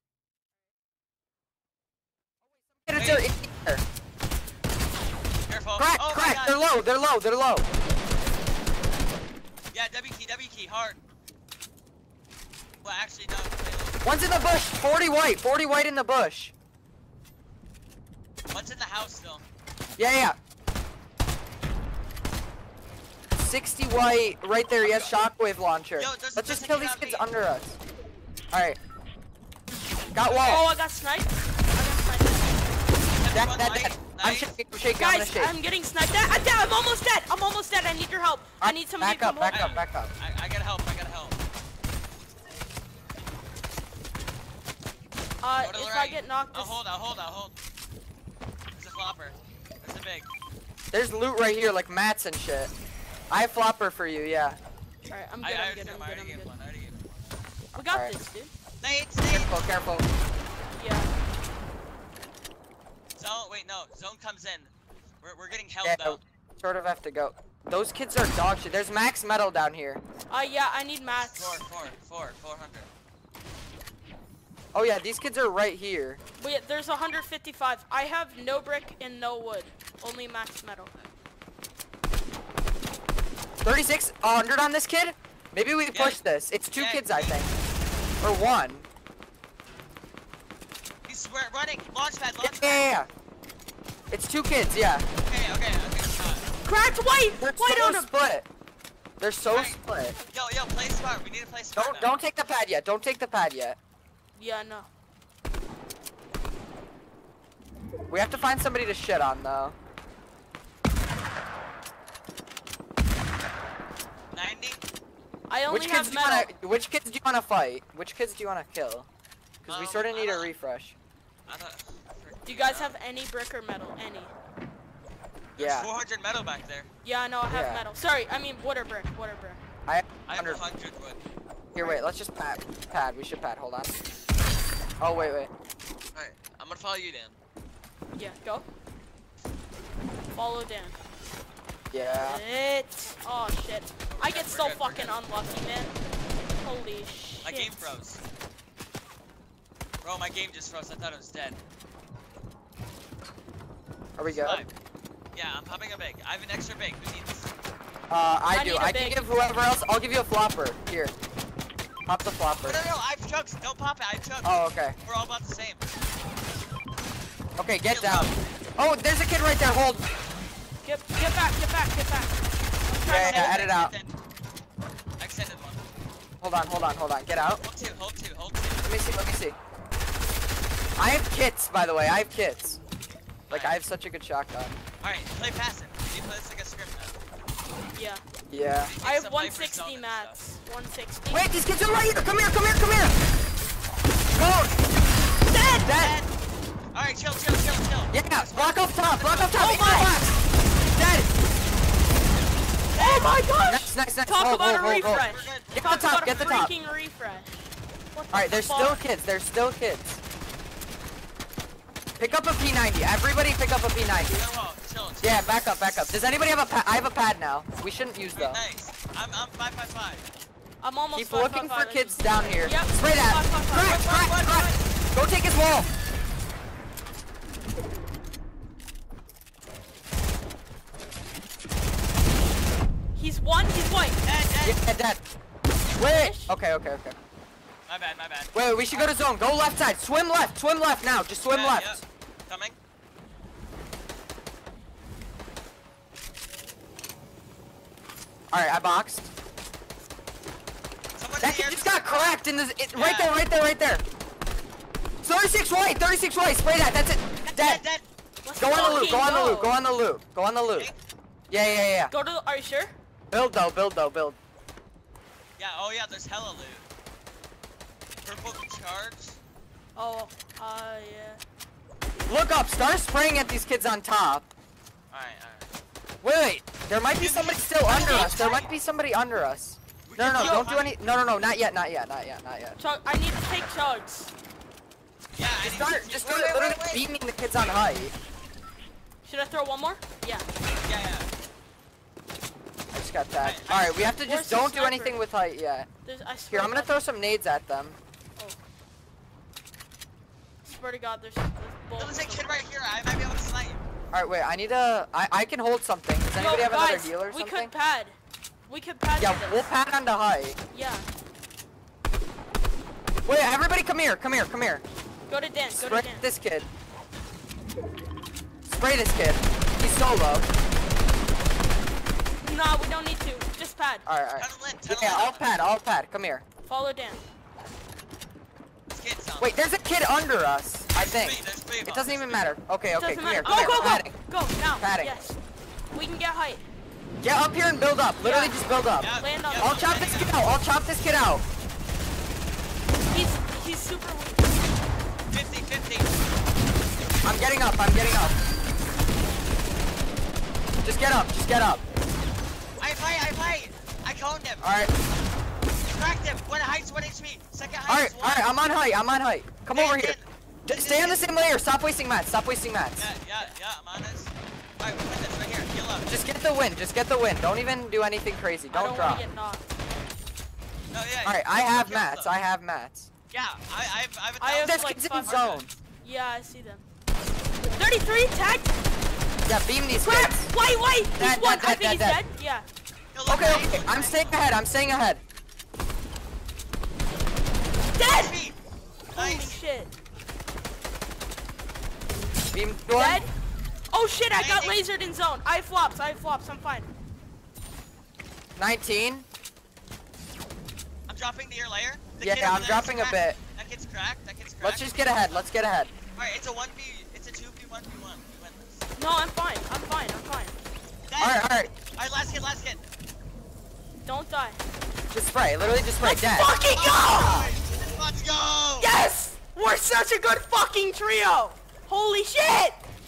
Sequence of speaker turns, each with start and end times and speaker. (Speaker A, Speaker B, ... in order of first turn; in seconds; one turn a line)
Speaker A: 2.4-3.9
Speaker B: 2.9-3.3
Speaker B: 5.5-6.6
Speaker A: 5.8-7.7
Speaker B: 9.7-11.0
Speaker B: 12.8-14.0
Speaker A: 14.0-16.5
Speaker B: 18.5-19.4
Speaker A: 20.0-20.4
Speaker A: 23.4-27.8
Speaker B: 24.8-25.2
Speaker B: 26.0-27.2
Speaker A: 28.5-28.8
Speaker A: 30.1-30.7
Speaker B: 30.2-30.8
Speaker C: 30.4-32.6
Speaker B: 33.2-34.6
Speaker A: 33.3-35.5
Speaker C: 34.9-39.8
Speaker A: 38.6-40.1
Speaker B: 39.5-41.4
Speaker C: 45.4-46.8
Speaker B: 45.6-47.6
Speaker B: 48.8-50.3
Speaker A: 50.9-52.7
Speaker A: 53.3-54.6
Speaker C: 55.1-56.5
Speaker B: 55.4-57.0
Speaker C: 57.7-58.5
Speaker B: 58.8-59.6
Speaker A: 59.3-60.1
Speaker C: 60.7-61.1
Speaker B: 63.2-66.2
Speaker A: 65.8-70.0
Speaker C: 70.3-71.6
Speaker B: 71.1-72.9
Speaker A: 74.7-76.2
Speaker C: 76.4-80.9
Speaker A: 83.6-87.5
Speaker B: 85.9-86.2
Speaker B: 86.7-87.5
Speaker A: 88.2-88.9
Speaker B: 91.1-92.9
Speaker A: 92.4-93.1
Speaker A: 94.1-95.1
Speaker B: 95.3-96.5
Speaker C: 96.6-98.1
Speaker A: 97.4-98.5
Speaker A: 99.2-100.2
Speaker B: 99.5-99.8
Speaker B: 100.3-102.1
Speaker A: 101.8-103.8
Speaker C: 104.3-104.9
Speaker A: 108.1-109.8
Speaker B: 114.3-114.8
Speaker C: 115.5-116.5
Speaker A: 115.7-119.1
Speaker A: 119.6-121.0
Speaker B: 119.7-120.5
Speaker B: 121.5-123.0
Speaker C: 122.5-124.3
Speaker A: 125.6-125.9
Speaker B: 125.6-126.9
Speaker C: 127.0-129.6
Speaker A: 127.5-127.8
Speaker A: 129.9-130.6
Speaker B: 130.3-131.2
Speaker A: 131.7-134.0
Speaker C: 131.8-132.1
Speaker A: 135.0-135.5
Speaker B: 136.1-137.4
Speaker C: 138.2-138.7
Speaker C: 140.3-141.0
Speaker A: 141.9-142.4
Speaker C: 142.2-145.9
Speaker B: 144.1-145.2
Speaker C: 146.5-147.9
Speaker B: 147.4-148.2
Speaker B: 150.0-151.6
Speaker A: 154.2-154.6
Speaker B: 154.2-154.7
Speaker B: 155.3-157.5
Speaker A: 158.1-161.1
Speaker C: 158.5-159.3
Speaker A: 162.1-162.8
Speaker B: 162.6-165.8
Speaker A: 164.4-165.0
Speaker A: 167.6-170.1
Speaker B: 167.8-168.4
Speaker C: 170.8-173.6
Speaker A: 173.0-173.9
Speaker B: 173.1-174.1
Speaker B: 175.2-175.8
Speaker A: 176.4-177.6
Speaker B: 177.6-179.0
Speaker A: 178.8-179.6
Speaker A: 181.0-182.8
Speaker B: 183.5-183.8
Speaker A: 183.5-184.8
Speaker B: 185.0-187.2
Speaker C: 187.9-188.2
Speaker A: 188.5-188.9
Speaker B: 188.7-190.4
Speaker C: 189.0-191.5
Speaker A: 191.3-193.2
Speaker A: 194.3-194.8
Speaker C: 195.5-195.9
Speaker A: 195.8-196.2
Speaker B: 195.9-196.3
Speaker B: 196.9-199.6
Speaker A: 198.1-200.4
Speaker C: 199.6-200.2
Speaker A: 200.9-201.3
Speaker B: 202.9-203.4
Speaker C: 202.9-207.6
Speaker A: 203.6-206.7
Speaker B: 204.8-206.7
Speaker C: 208.1-209.0
Speaker A: 208.3-210.2
Speaker A: 212.2-214.5
Speaker B: 214.3-215.8
Speaker A: 215.2-218.6
Speaker B: 218.4-220.3
Speaker C: 220.8-224.8
Speaker A: 221.1-225.9
Speaker C: 233.2-234.2
Speaker B: 234.2-234.8
Speaker A: 234.6-235.2
Speaker A: 236.0-237.2
Speaker C: 236.0-236.5
Speaker B: 237.9-239.1
Speaker A: 238.5-242.0
Speaker B: 241.5-242.8
Speaker A: 248.5-249.3
Speaker B: 251.2-252.3
Speaker A: 251.4-254.0
Speaker B: 252.9-253.3
Speaker A: 255.2-257.8
Speaker B: 257.4-258.1
Speaker C: 258.4-259.8
Speaker A: 258.6-260.9
Speaker A: 261.5-262.1
Speaker C: 262.1-262.9
Speaker A: 263.3-264.4
Speaker B: 265.6-266.9
Speaker B: 268.2-269.4
Speaker C: 270.0-271.4
Speaker A: 272.3-274.4
Speaker B: 275.1-275.7
Speaker A: 276.2-282.8
Speaker B: 277.2-278.7
Speaker C: 277.9-278.7
Speaker B: 280.1-281.0
Speaker C: 280.4-280.6
Speaker C: 282.8-284.3
Speaker B: 285.4-287.1
Speaker A: 285.6-288.1
Speaker C: 289.2-290.5
Speaker B: 290.9-291.3
Speaker A: 292.9-295.9
Speaker B: 293.4-294.2
Speaker C: 294.2-295.2
Speaker C: 296.0-297.0
Speaker A: 296.5-298.0
Speaker C: 300.6-302.6
Speaker B: 302.0-303.8
Speaker A: 304.1-307.7
Speaker C: 306.4-309.7
Speaker A: 309.2-310.6
Speaker C: 310.7-311.1
Speaker A: 313.3-314.8
Speaker C: 315.3-316.3
Speaker A: 315.8-316.7
Speaker A: 318.7-320.5
Speaker C: 322.4-324.1
Speaker A: 324.1-326.4
Speaker B: 324.4-325.6
Speaker C: 326.7-327.2
Speaker B: 328.9-329.7
Speaker A: 329.4-334.2
Speaker B: 330.9-332.6
Speaker C: 333.0-335.4
Speaker B: 333.4-334.0
Speaker A: 334.8-335.1
Speaker C: 335.9-336.7
Speaker A: 337.2-341.4
Speaker C: 338.2-339.9
Speaker B: 339.0-340.5
Speaker C: 343.1-344.6
Speaker B: 345.3-346.1
Speaker A: 347.2-348.4
Speaker A: 350.8-351.8
Speaker B: 352.8-354.7
Speaker A: 354.6-354.9
Speaker B: 355.9-358.6
Speaker A: 357.9-363.1
Speaker B: 359.7-361.3
Speaker B: 363.0-366.1
Speaker A: 366.1-369.2
Speaker C: 368.7-369.6
Speaker B: 370.9-372.4
Speaker A: 371.2-373.1
Speaker B: 373.3-375.6
Speaker C: 374.4-375.4
Speaker A: 374.5-375.7
Speaker C: 376.0-376.8
Speaker C: 377.7-378.7
Speaker A: 379.5-380.5
Speaker C: 380.0-382.7
Speaker A: 381.2-382.2
Speaker B: 383.1-384.4
Speaker A: 383.3-385.2
Speaker C: 387.9-388.4
Speaker B: 388.0-388.6
Speaker B: 389.1-389.6
Speaker C: 389.1-389.9
Speaker A: 392.5-393.2
Speaker C: 392.9-393.3
Speaker C: 393.9-396.9
Speaker B: 394.3-394.8
Speaker A: 398.6-399.3
Speaker B: 401.1-405.5
Speaker A: 402.2-403.4
Speaker A: 404.6-405.9
Speaker B: 406.2-408.9
Speaker C: 409.0-410.6
Speaker B: 411.1-412.8
Speaker A: 411.2-411.7
Speaker C: 414.0-414.6
Speaker A: 415.1-416.5
Speaker C: 416.0-417.5
Speaker B: 416.6-418.9
Speaker C: 418.8-422.8